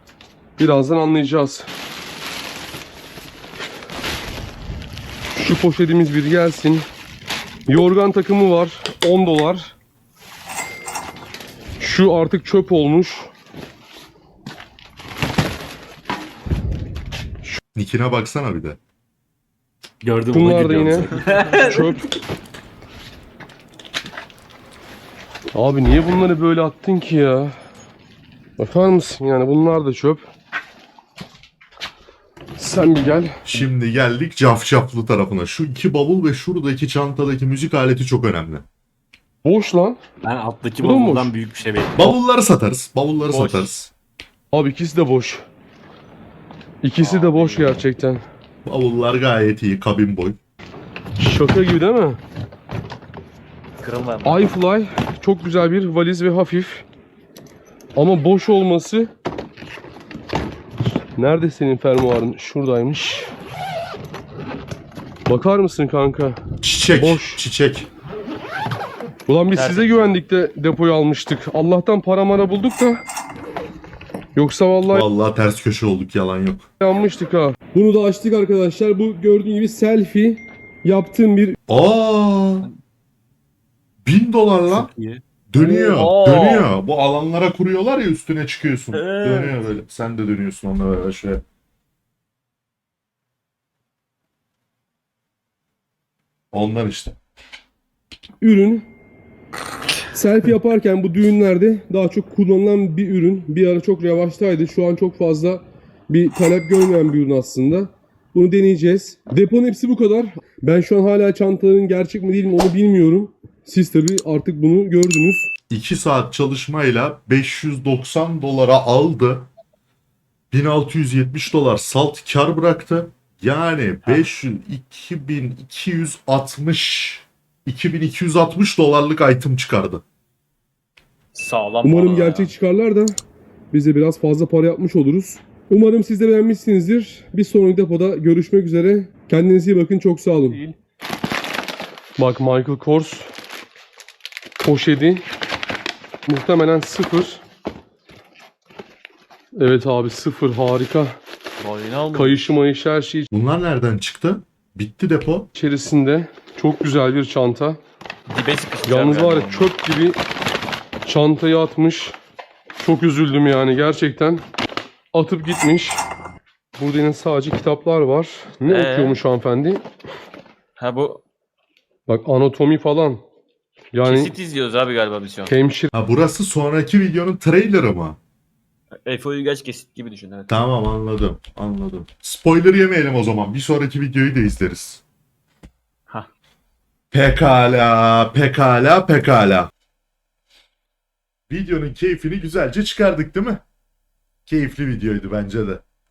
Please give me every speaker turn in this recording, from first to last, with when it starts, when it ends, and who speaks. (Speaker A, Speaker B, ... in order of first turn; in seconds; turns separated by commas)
Speaker A: 0.6-1.7, Speaker A: 5.3-6.9, Speaker A: 7.7-9.8, Speaker A: 11.8-13.3, Speaker B: 17.7-18.8, Speaker C: 20.0-21.9, Speaker A: 20.3-22.1, Speaker D: 21.3-21.6, Speaker A: 25.5-27.6, Speaker A: 28.6-30.2, Speaker A: 32.6-33.7, Speaker B: 33.5-38.6, Speaker A: 39.4-40.0, Speaker C: 40.2-42.1, Speaker A: 40.8-41.4, Speaker B: 42.0-43.9, Speaker A: 44.5-45.5, Speaker A: 46.8-48.2, Speaker D: 47.0-47.9, Speaker B: 48.6-50.4, Speaker A: 51.2-52.2, Speaker D: 53.8-54.5, Speaker A: 54.2-56.9, Speaker A: 58.0-59.1, Speaker A: 61.2-63.3, Speaker A: 65.3-67.4, Speaker B: 66.6-67.9, Speaker A: 69.3-73.0, Speaker D: 69.5-70.1, Speaker A: 74.3-75.1, Speaker B: 74.9-76.7, Speaker A: 76.8-81.6, Speaker B: 81.7-82.7, Speaker B: 84.0-84.9, Speaker C: 84.7-85.2, Speaker B: 85.5-91.4, Speaker D: 85.6-86.7, Speaker D: 88.9-89.6, Speaker B: 96.5-97.2, Speaker A: 98.4-98.9, Speaker A: 100.1-115.5, Speaker B: 115.7-119.5, Speaker B: 120.5-130.0, Speaker D: 131.3-132.5, Speaker A: 131.8-133.2, Speaker A: 133.7-140.7, Speaker A: 142.2-143.3, Speaker A: 144.6-145.2, Speaker A: 146.3-147.4, Speaker A: 149.6-151.2, Speaker D: 151.6-152.5, Speaker A: 152.1-153.3, Speaker B: 153.3-155.5, Speaker A: 155.5-157.8, Speaker D: 158.3-159.7, Speaker A: 158.9-160.2, Speaker A: 161.1-162.2, Speaker A: 162.8-164.4, Speaker A: 165.1-166.0, Speaker A: 166.8-169.8, Speaker D: 168.7-169.2, Speaker D: 170.8-171.2, Speaker A: 172.1-173.2, Speaker A: 173.9-174.3, Speaker D: 174.1-175.5, Speaker A: 175.5-175.9, Speaker B: 175.9-178.2, Speaker D: 179.0-180.5, Speaker B: 180.5-185.0, Speaker B: 187.1-189.7, Speaker B: 191.5-193.6, Speaker B: 194.5-195.8